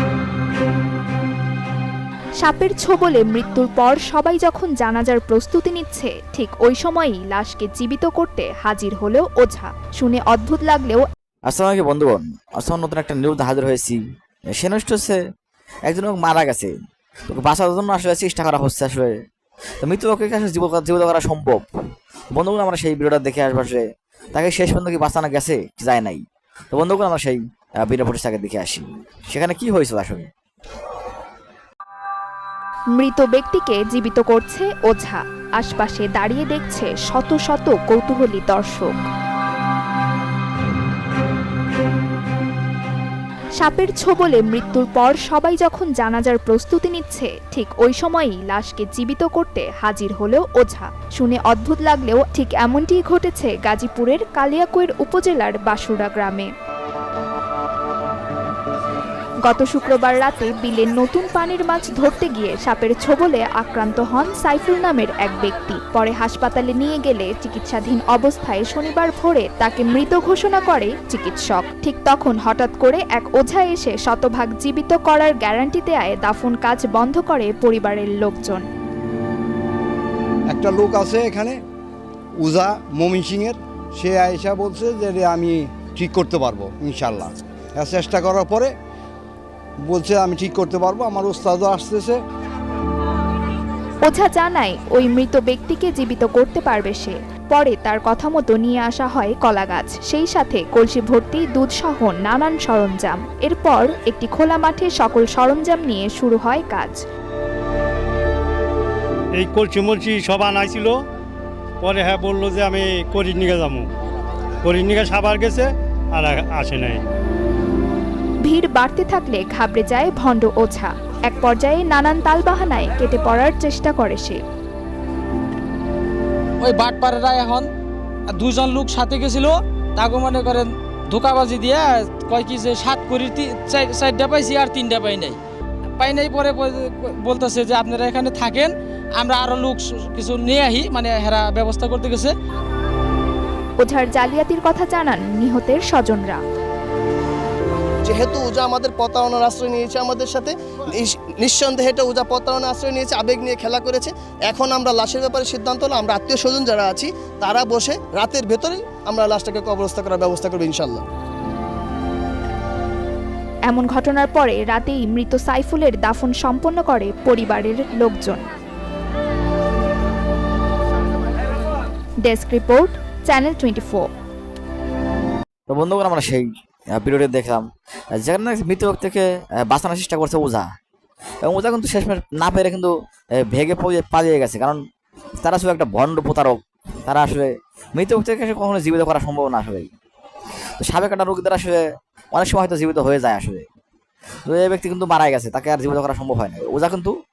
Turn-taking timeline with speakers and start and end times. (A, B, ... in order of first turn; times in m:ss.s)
0:02.4-0:11.0 A
0:11.5-0:14.0 B
0:14.6-0:15.2 B
0:15.9-0:16.7 B
0:17.3-0:19.2 B
0:19.8-0:21.7 B
0:22.3-0:23.8 B
0:24.4-0:26.2 B
0:26.7-0:30.3 B
0:33.0-0:39.0 A
0:43.6-0:56.5 A
0:59.4-1:18.6 A
1:20.5-1:21.6 C
1:22.4-1:28.7 C
1:29.9-1:32.2 C
1:34.0-1:47.0 A
1:49.4-1:51.0 D
1:51.8-1:53.9 D
1:54.7-1:57.0 D
1:58.4-2:04.4 A
2:06.6-2:07.7 E
2:08.3-2:15.4 E
2:16.0-2:22.3 E
2:23.8-2:26.4 A
2:28.0-2:41.0 F
2:43.7-2:48.4 A
2:52.2-2:54.1 A
2:55.7-3:00.7 B
3:01.4-3:04.8 B
3:05.4-3:09.9 B
3:10.8-3:11.8 B
3:12.3-3:13.6 B
3:14.5-3:17.1 B